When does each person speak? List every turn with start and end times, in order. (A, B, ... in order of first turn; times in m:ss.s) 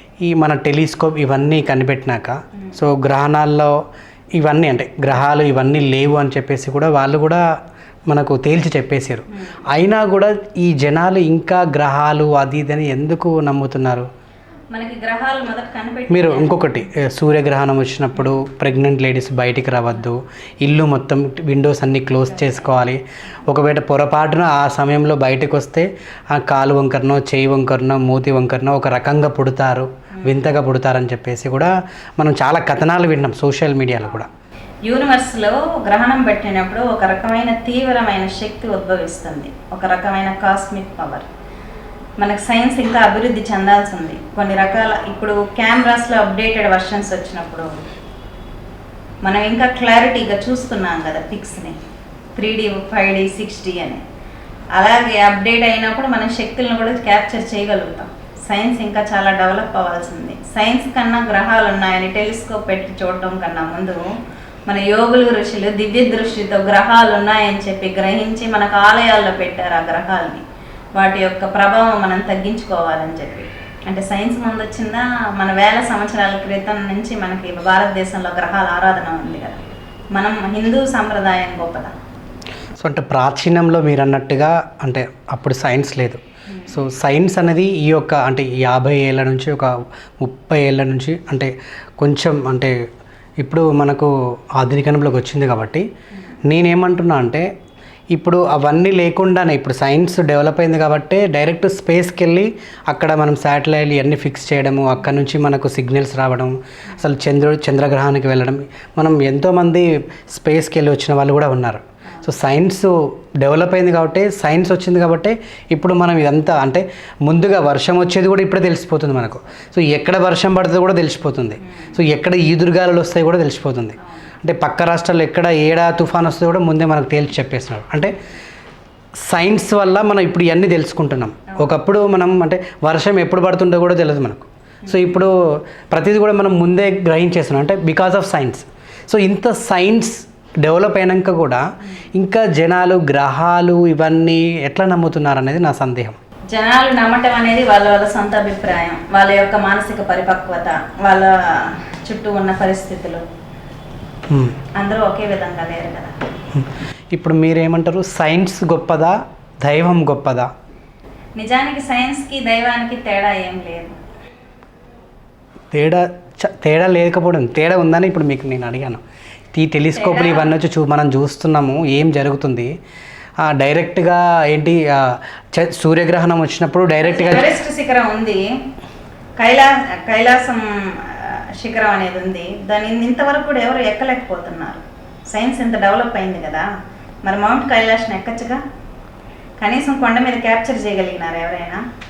0:00.2-0:03.7 A
0:04.3-0:07.4 A
0:08.1-0:14.0 A
0:14.7-0:16.9 B
0:16.1-0:34.3 A
0:30.2-0:30.5 B
0:34.8-0:41.3 B
0:42.2-0:47.7 B
0:49.2-0:51.8 B
0:52.4-0:54.0 B
0:54.7-1:04.1 B
1:04.7-1:10.4 B
1:11.0-1:19.6 B
1:20.1-1:21.9 B
1:22.8-1:32.7 A
1:26.5-1:26.8 B
1:33.4-1:35.8 A
1:36.5-1:37.4 A
1:38.1-2:08.2 A
2:09.3-2:15.3 A
2:14.8-2:15.2 B
2:15.9-2:21.6 A
2:22.2-2:26.2 A
2:26.5-2:33.2 B
2:34.3-2:34.6 A
2:34.7-2:36.2 B
2:36.5-2:40.5 A
2:41.4-2:44.0 B
2:45.7-2:49.0 A
2:49.5-2:52.7 A
2:49.9-2:50.5 B
2:53.5-2:57.6 A
2:57.0-2:58.5 B
2:59.4-3:06.7 B
3:07.2-3:08.6 B
3:09.6-3:11.8 B